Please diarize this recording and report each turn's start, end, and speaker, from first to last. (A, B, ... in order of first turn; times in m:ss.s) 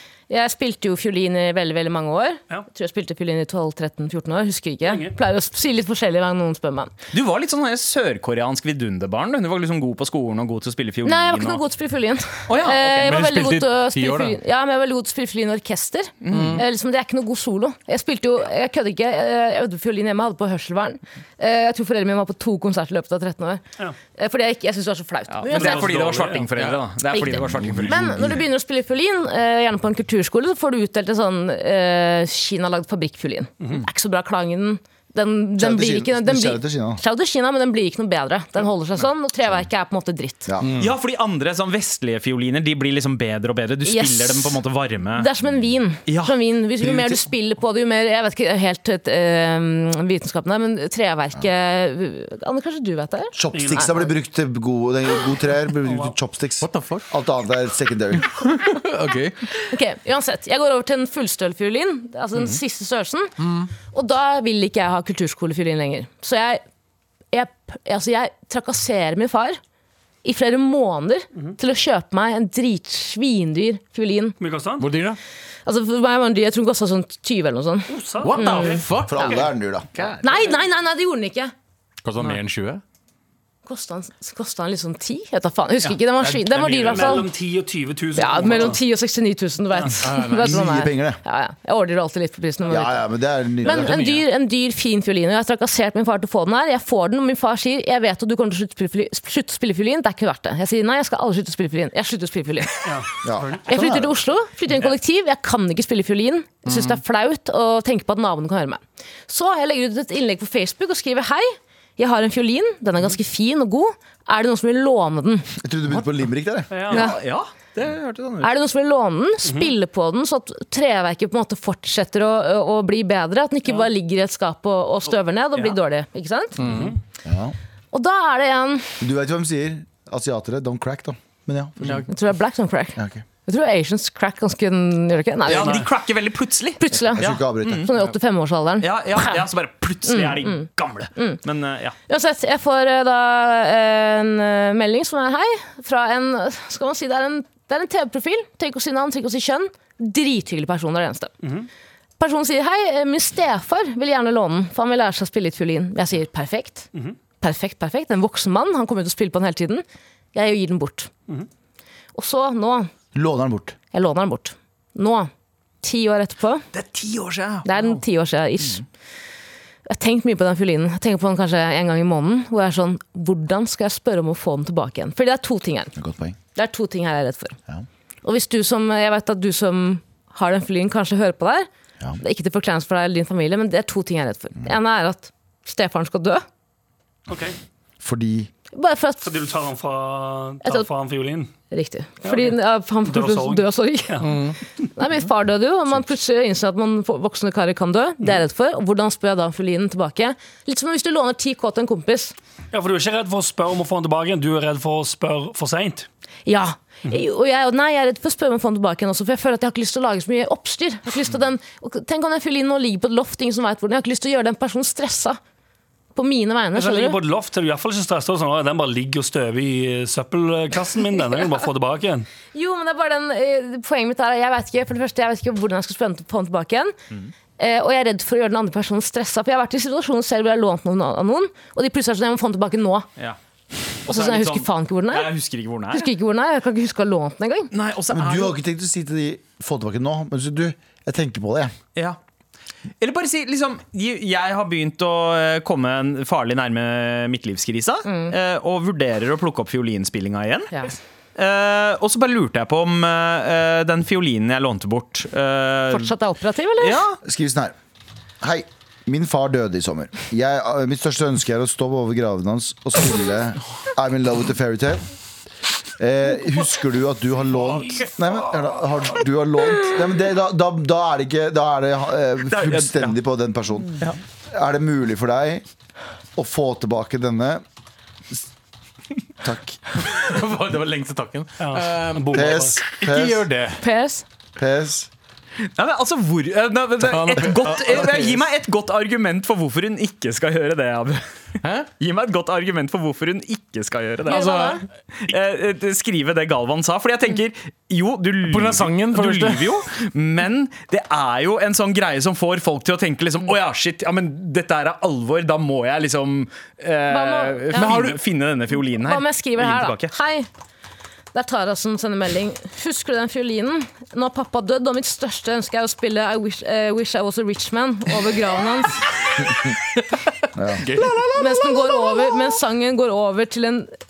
0:00.3-0:06.9 A
0:04.9-0:05.2 B
0:07.1-0:11.6 C
0:11.0-0:23.6 A
0:12.5-0:13.1 C
0:13.0-0:14.4 D
0:16.2-0:16.6 C
0:16.3-0:16.6 D
0:24.2-0:25.8 A
0:25.3-0:28.1 C
0:25.5-0:26.5 B
0:25.8-0:26.8 D
0:27.1-0:40.5 A
0:27.6-0:28.4 E
0:35.6-0:37.0 E
0:40.6-0:40.9 D
0:40.8-0:45.3 C
0:43.8-0:44.6 A
0:45.2-0:53.8 A
0:46.1-0:46.3 C
0:46.8-0:47.2 E
0:53.4-0:58.3 E
0:53.5-0:54.1 B
0:55.9-0:56.1 B
0:56.6-0:57.1 D
0:58.3-0:59.5 D
0:59.7-1:03.3 A
1:03.4-1:03.7 D
1:03.9-1:06.6 A
1:07.3-1:09.6 A
1:10.2-1:14.4 A
1:14.4-1:14.9 B
1:14.8-1:15.2 D
1:15.7-1:18.8 A
1:17.9-1:18.9 B
1:18.2-1:19.4 D
1:19.0-1:19.9 E
1:20.0-1:20.6 C
1:20.2-1:21.5 A
1:22.0-1:22.8 D
1:23.7-1:27.3 A
1:26.3-1:28.8 B
1:28.2-1:33.1 A
1:30.0-1:30.6 D
1:30.4-1:31.2 E
1:32.7-1:34.0 E
1:33.6-1:42.9 A
1:33.6-1:34.3 D
1:42.8-1:43.6 B
1:43.2-1:44.2 E
1:43.7-1:55.5 A
1:46.7-1:47.0 D
1:55.6-1:56.7 E
1:56.7-1:57.1 B
1:56.9-1:57.2 A
1:56.9-1:58.5 C
1:58.4-2:06.6 A
1:59.4-1:59.7 B
2:06.6-2:06.9 D
2:06.6-2:07.0 B
2:07.2-2:07.6 E
2:07.9-2:08.9 A
2:09.0-2:12.1 E
2:11.8-2:12.1 D
2:12.1-2:15.8 A
2:13.0-2:13.2 E
2:15.5-2:15.9 B
2:15.5-2:17.9 C
2:16.8-2:19.4 A
2:16.9-2:17.9 E
2:18.8-2:22.0 C
2:20.1-2:21.4 A
2:22.1-2:31.3 A
2:31.4-2:31.7 B
2:32.2-2:36.9 A
2:37.4-2:41.1 A
2:42.2-2:42.9 A
2:43.1-2:43.8 E
2:43.9-2:45.3 A
2:45.8-2:46.6 A
2:46.7-2:48.0 C
2:47.6-2:48.8 A
2:49.9-2:55.9 A
2:56.0-2:56.4 E
2:56.6-2:57.6 A
2:58.2-3:01.7 A
3:02.2-3:06.4 A
3:07.3-3:07.6 B
3:08.0-3:08.5 E
3:08.7-3:09.4 A
3:09.2-3:11.5 B
3:10.6-3:10.9 A
3:11.7-3:14.4 A
3:12.3-3:14.3 B
3:14.2-3:14.6 D
3:15.0-3:22.4 A
3:22.7-3:26.1 B
3:26.5-3:35.4 A
3:36.2-3:37.2 A
3:36.8-3:42.3 B
3:42.5-3:46.9 A
3:47.6-3:53.1 A
3:54.1-3:56.1 C
3:54.1-3:55.3 A
3:55.9-3:57.7 A
3:57.7-3:58.6 C
3:58.1-4:01.7 E
4:03.0-4:10.8 C
4:08.1-4:08.4 A
4:11.4-4:16.1 C
4:15.9-4:17.0 A
4:16.8-4:17.2 C
4:17.2-4:17.7 E
4:18.4-4:25.0 E
4:26.0-4:35.6 E
4:27.7-4:28.0 D
4:32.5-4:33.1 C
4:36.4-4:37.6 E
4:39.4-4:39.8 E
4:40.0-4:43.8 D
4:41.6-4:42.8 B
4:42.3-4:43.5 E
4:43.8-4:44.2 A
4:44.6-4:45.1 E
4:45.8-4:51.2 C
4:47.0-4:48.4 D
4:51.6-4:51.9 D
4:52.0-4:54.6 C
4:54.3-4:54.8 D
4:54.3-4:54.8 A
4:55.2-5:10.1 C
4:58.4-4:59.6 D
5:07.1-5:08.0 A
5:07.8-5:08.2 D
5:09.0-5:10.5 A
5:11.3-5:19.0 A
5:20.6-5:20.8 E
5:20.7-5:22.6 D
5:21.3-5:23.9 A